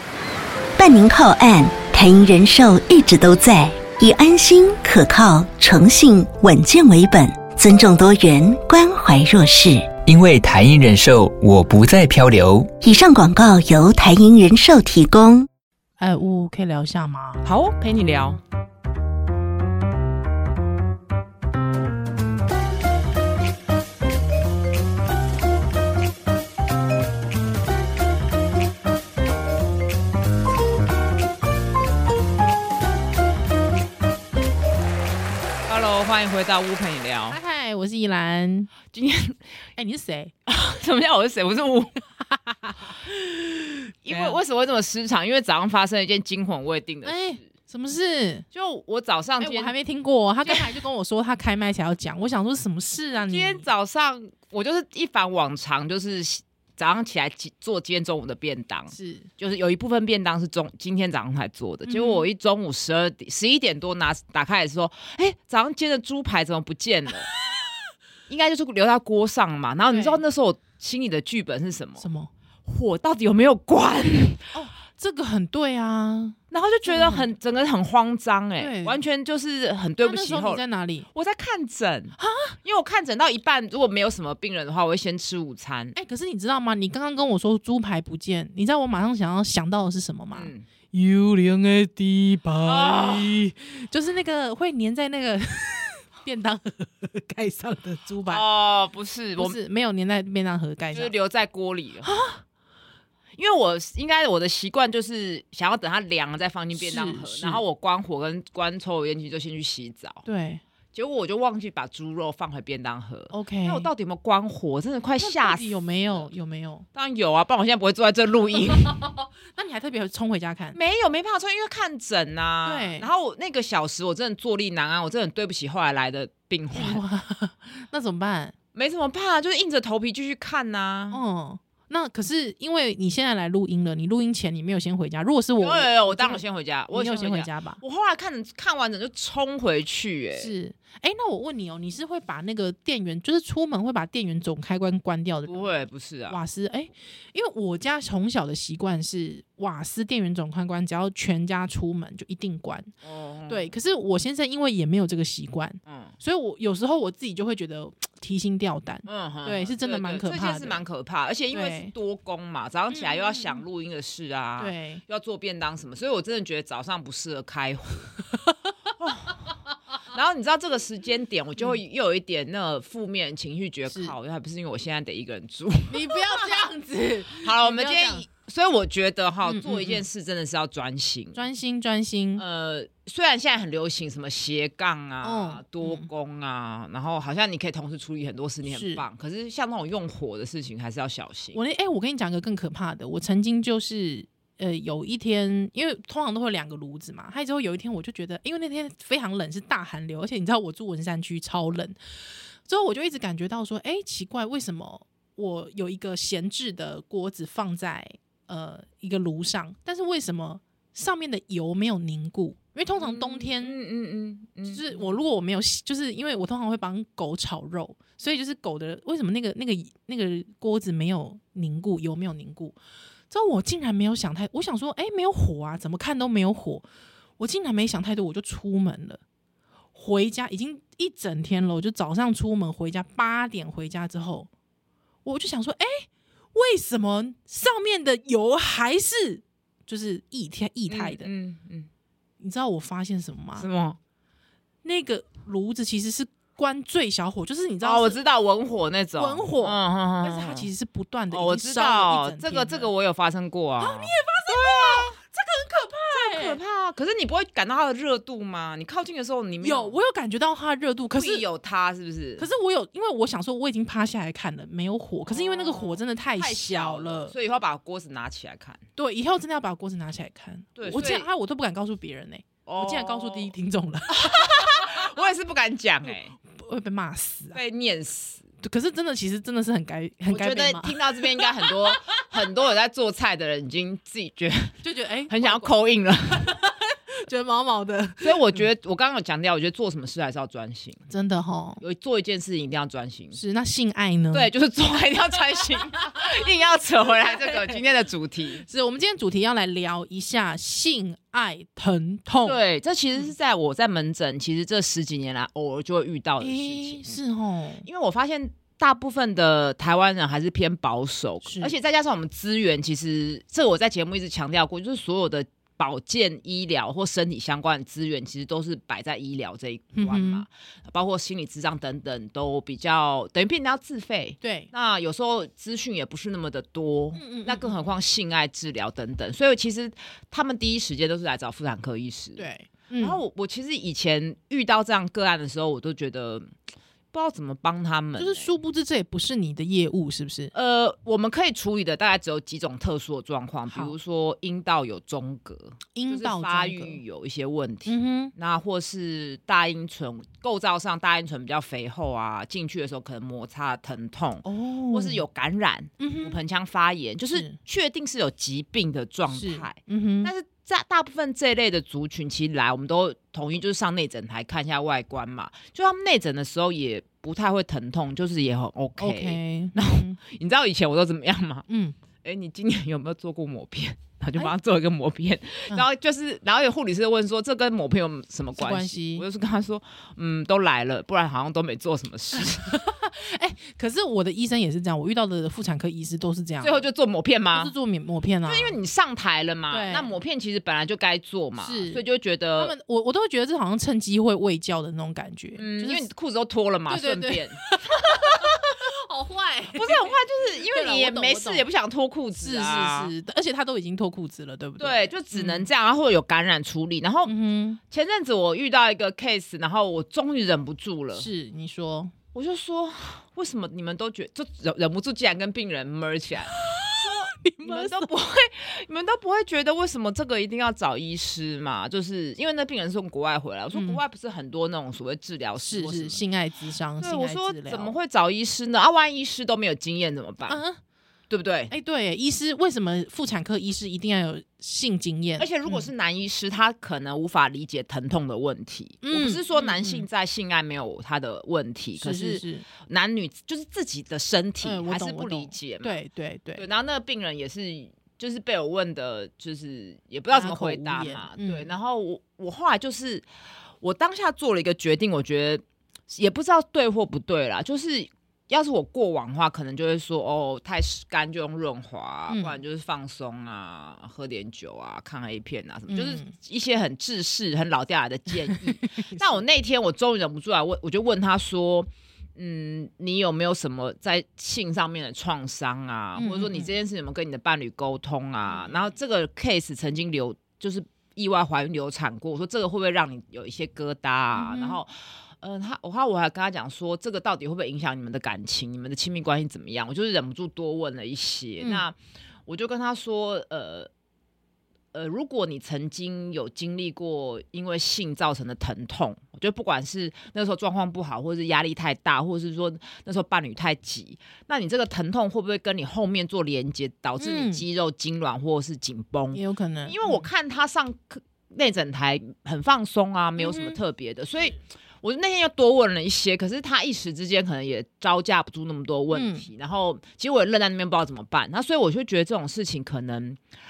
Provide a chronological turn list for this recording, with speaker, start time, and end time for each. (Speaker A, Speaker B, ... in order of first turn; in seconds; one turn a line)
Speaker A: 0.8-9.9
Speaker B: 10.1-12.7
Speaker A: 12.8-15.5
Speaker C: 16.0-17.4
Speaker D: 17.4-18.4
Speaker D: 35.7-37.4
Speaker C: 37.3-38.7
Speaker D: 38.9-39.4
Speaker C: 39.8-40.3
Speaker D: 40.5-42.0
Speaker C: 42.3-42.9
Speaker D: 44.0-47.5
Speaker C: 44.1-44.4
Speaker C: 47.0-48.5
Speaker D: 48.5-49.7
Speaker C: 49.4-53.6
Speaker D: 50.4-50.7
Speaker D: 53.1-67.3
Speaker C: 58.9-59.3
Speaker C: 61.9-62.3
Speaker D: 68.3-72.0
Speaker C: 69.9-70.2
Speaker C: 72.0-72.3
Speaker D: 72.7-74.5
Speaker C: 74.5-77.3
Speaker D: 76.5-80.6
Speaker C: 78.6-79.0
Speaker C: 80.0-81.1
Speaker D: 81.1-85.9
Speaker C: 82.2-82.5
Speaker C: 85.9-98.4
Speaker D: 90.3-90.6
Speaker D: 92.6-93.4
Speaker D: 98.3-99.5
Speaker C: 99.4-101.1
Speaker D: 100.9-102.1
Speaker C: 102.0-102.4
Speaker D: 103.3-110.2
Speaker C: 106.7-107.6
Speaker C: 110.2-110.6
Speaker D: 110.9-116.3
Speaker C: 113.3-113.9
Speaker C: 115.2-116.8
Speaker D: 116.9-119.0
Speaker C: 118.7-120.8
Speaker D: 120.7-127.0
Speaker C: 122.6-123.1
Speaker C: 126.7-128.5
Speaker D: 128.7-131.2
Speaker C: 131.1-137.8
Speaker D: 135.6-140.5
Speaker C: 140.3-145.7
Speaker D: 145.4-146.4
Speaker C: 146.3-152.9
Speaker D: 153.0-153.7
Speaker C: 153.5-160.8
Speaker D: 155.8-156.1
Speaker D: 159.1-168.1
Speaker C: 161.5-161.9
Speaker C: 162.9-163.6
Speaker C: 164.6-165.0
Speaker C: 168.3-168.7
Speaker D: 169.0-169.3
Speaker D: 170.1-176.7
Speaker C: 173.9-174.2
Speaker C: 175.9-178.2
Speaker D: 177.4-181.4
Speaker C: 179.4-180.0
Speaker C: 181.3-182.4
Speaker D: 182.4-191.6
Speaker C: 185.2-186.1
Speaker C: 188.7-189.0
Speaker C: 191.5-202.0
Speaker C: 202.6-213.8
Speaker D: 213.0-215.1
Speaker C: 214.7-222.8
Speaker C: 223.3-226.8
Speaker C: 227.4-229.2
Speaker C: 229.9-234.5
Speaker C: 235.2-241.3
Speaker D: 240.9-241.9
Speaker C: 242.4-243.7
Speaker D: 243.6-244.0
Speaker C: 244.8-248.2
Speaker D: 247.8-250.7
Speaker C: 249.2-252.9
Speaker D: 251.3-255.2
Speaker C: 253.8-256.6
Speaker D: 256.1-259.9
Speaker C: 259.6-261.4
Speaker D: 261.1-262.5
Speaker C: 262.4-267.3
Speaker D: 265.3-268.8
Speaker C: 269.0-275.0
Speaker D: 270.8-271.3
Speaker D: 272.6-273.5
Speaker D: 274.1-276.3
Speaker C: 276.5-277.6
Speaker D: 277.5-278.4
Speaker C: 278.6-282.4
Speaker D: 280.3-284.8
Speaker C: 284.8-285.7
Speaker D: 285.3-286.6
Speaker C: 286.3-288.6
Speaker D: 288.2-291.0
Speaker C: 291.1-291.8
Speaker D: 291.8-293.4
Speaker C: 293.3-294.5
Speaker D: 294.3-298.6
Speaker C: 297.3-297.8
Speaker C: 298.6-302.6
Speaker D: 302.4-307.1
Speaker C: 306.4-307.9
Speaker D: 307.8-332.4
Speaker C: 311.4-311.7
Speaker C: 319.9-320.4
Speaker C: 324.4-324.7
Speaker C: 327.1-327.7
Speaker C: 332.4-333.2
Speaker D: 333.0-336.5
Speaker D: 337.1-338.6
Speaker C: 338.2-340.5
Speaker D: 340.5-371.6
Speaker C: 345.9-347.0
Speaker C: 347.9-348.3
Speaker C: 354.4-355.2
Speaker C: 356.0-356.4
Speaker C: 359.3-360.3
Speaker C: 369.0-370.2
Speaker C: 371.7-371.9
Speaker D: 372.2-382.8
Speaker C: 378.6-379.2
Speaker C: 382.4-386.8
Speaker D: 386.6-387.7
Speaker C: 387.5-388.8
Speaker D: 388.4-392.7
Speaker C: 389.7-390.1
Speaker C: 391.6-392.0
Speaker C: 392.6-396.1
Speaker D: 395.6-398.6
Speaker C: 396.9-401.6
Speaker D: 399.7-403.1
Speaker C: 402.4-405.7
Speaker D: 404.8-407.3
Speaker C: 407.2-407.8
Speaker D: 407.9-411.3
Speaker C: 411.1-412.1
Speaker D: 412.3-426.2
Speaker C: 416.5-418.1
Speaker C: 423.7-424.0
Speaker C: 425.6-427.9
Speaker D: 427.0-430.6
Speaker C: 430.5-430.8
Speaker D: 431.3-431.7
Speaker C: 431.7-435.9
Speaker D: 435.4-446.0
Speaker C: 439.0-440.1
Speaker C: 442.0-442.6
Speaker C: 444.6-446.6
Speaker D: 446.6-453.2
Speaker C: 450.3-451.7
Speaker D: 453.8-491.9
Speaker C: 462.3-462.6
Speaker C: 465.9-466.3
Speaker C: 468.5-469.3
Speaker C: 476.2-476.7
Speaker C: 478.5-478.8
Speaker C: 484.3-484.8
Speaker C: 491.6-491.8
Speaker D: 492.5-493.9
Speaker D: 494.9-523.4
Speaker C: 507.2-507.6
Speaker C: 509.3-510.2
Speaker C: 513.4-513.8
Speaker C: 519.1-519.5